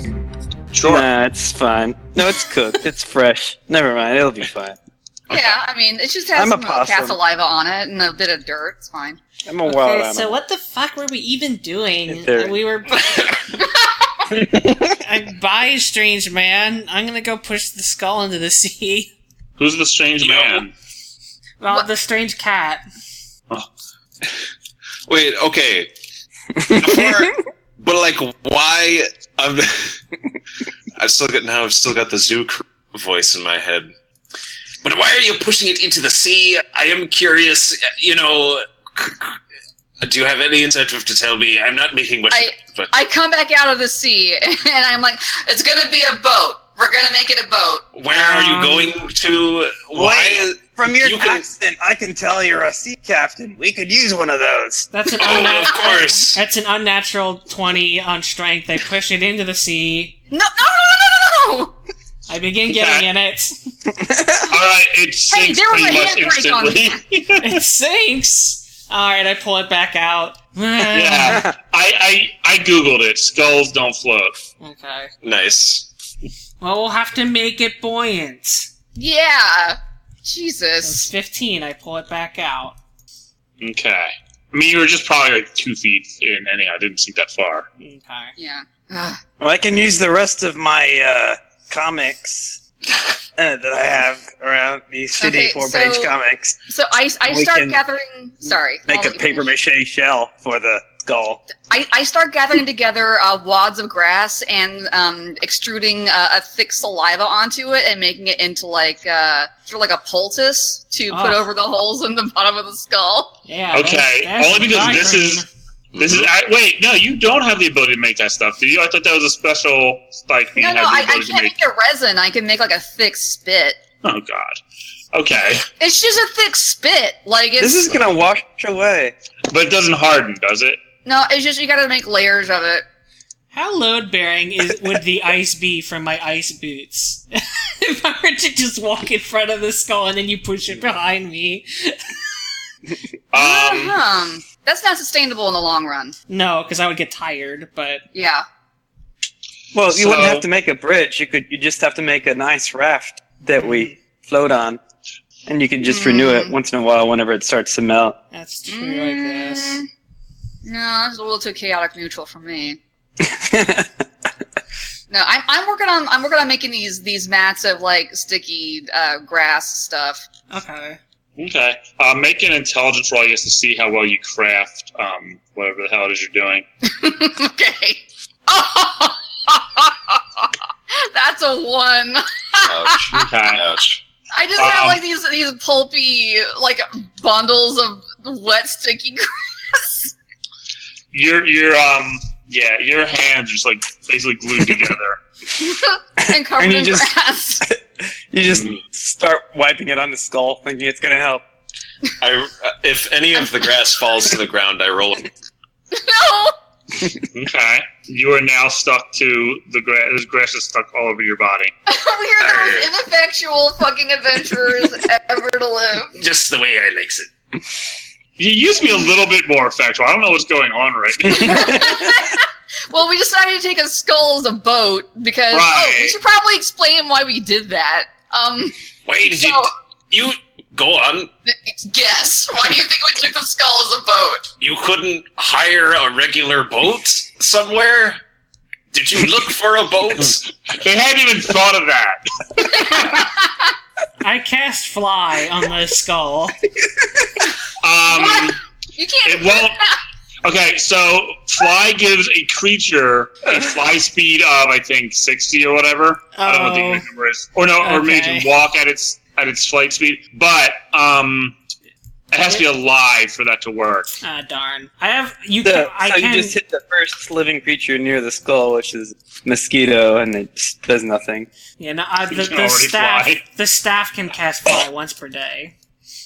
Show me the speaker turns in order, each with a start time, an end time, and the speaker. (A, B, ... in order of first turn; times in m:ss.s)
0:00.7-0:01.1 A
0:00.8-0:04.8 B
0:05.3-0:09.2 C
0:06.4-0:07.2 B
0:09.5-0:10.4 B
0:09.7-0:13.3 D
0:12.1-0:12.6 B
0:14.9-0:19.1 D
0:19.6-0:20.7 A
0:20.2-0:20.7 E
0:21.6-0:22.8 D
0:25.1-0:25.9 E
0:26.6-0:30.0 E
0:31.0-0:33.9 E
0:34.8-0:39.4 E
0:40.0-0:43.0 E
0:42.3-0:47.9 C
0:47.9-0:51.4 E
0:48.1-0:48.9 B
0:49.9-0:55.4 B
0:54.9-1:00.2 D
0:55.2-0:56.4 E
1:00.3-1:01.7 C
1:02.3-1:03.6 D
1:02.7-1:03.1 A
1:04.0-1:04.5 B
1:04.5-1:07.6 A
1:05.3-1:07.0 C
1:07.4-1:11.4 D
1:10.9-1:14.4 A
1:14.6-1:15.1 D
1:15.2-1:15.9 E
1:16.6-1:18.7 D
1:19.0-1:21.1 C
1:20.8-1:22.8 D
1:23.6-1:27.7 A
1:27.8-1:28.3 D
1:28.4-1:29.2 C
1:29.4-1:32.6 B
1:33.4-1:36.6 B
1:35.2-1:36.1 C
1:36.7-1:39.4 C
1:37.2-1:37.8 B
1:38.9-1:41.4 B
1:41.7-1:53.3 C
1:51.1-1:51.4 D
1:53.4-1:55.5 D
1:53.7-1:55.4 A
1:55.9-1:56.3 E
1:56.0-2:01.6 A
2:00.6-2:03.8 C
2:04.0-2:04.6 A
2:05.1-2:05.7 A
2:05.8-2:08.0 C
2:07.6-2:09.2 B
2:09.5-2:10.8 A
2:11.0-2:12.8 C
2:13.5-2:22.4 D
2:23.3-2:24.0 A
2:23.3-2:26.2 C
2:26.3-2:28.0 D
2:28.1-2:28.4 C
2:29.7-2:34.8 B
2:29.9-2:30.4 A
2:33.6-2:34.0 D
2:35.5-2:38.2 B
2:35.8-2:36.5 C
2:38.3-2:39.8 D
2:38.7-2:39.9 C
2:40.6-2:42.8 C
2:43.2-2:44.0 B
2:45.1-2:50.2 C
2:50.5-2:51.0 D
2:51.4-2:56.6 A
2:56.9-3:00.2 C
3:00.9-3:03.2 C
3:02.6-3:04.0 E
3:03.1-3:03.6 A
3:04.3-3:09.8 C
3:04.6-3:05.0 A
3:11.1-3:15.2 A
3:15.5-3:17.6 C
3:16.2-3:17.1 B
3:17.6-3:21.4 B
3:22.2-3:25.3 E
3:25.9-3:26.6 C
3:27.3-3:31.7 A
3:31.9-3:36.2 C
3:32.4-3:32.9 E
3:36.2-3:37.3 E
3:38.4-3:41.8 A
3:41.3-3:42.2 B
3:41.3-3:49.7 C
3:45.5-3:46.2 A
3:49.1-3:51.3 E
3:51.5-3:54.5 C
3:54.6-3:58.2 E
3:58.9-4:00.5 E
4:00.2-4:03.2 A
4:02.6-4:03.2 C
4:04.2-4:06.6 D
4:07.8-4:08.6 A
4:08.1-4:10.0 C
4:09.2-4:09.8 A
4:10.4-4:21.6 A
4:16.4-4:17.1 D
4:17.8-4:18.5 D
4:22.3-4:24.1 A
4:24.2-4:26.6 D
4:25.6-4:31.5 B
4:31.8-4:35.8 D
4:32.3-4:33.4 A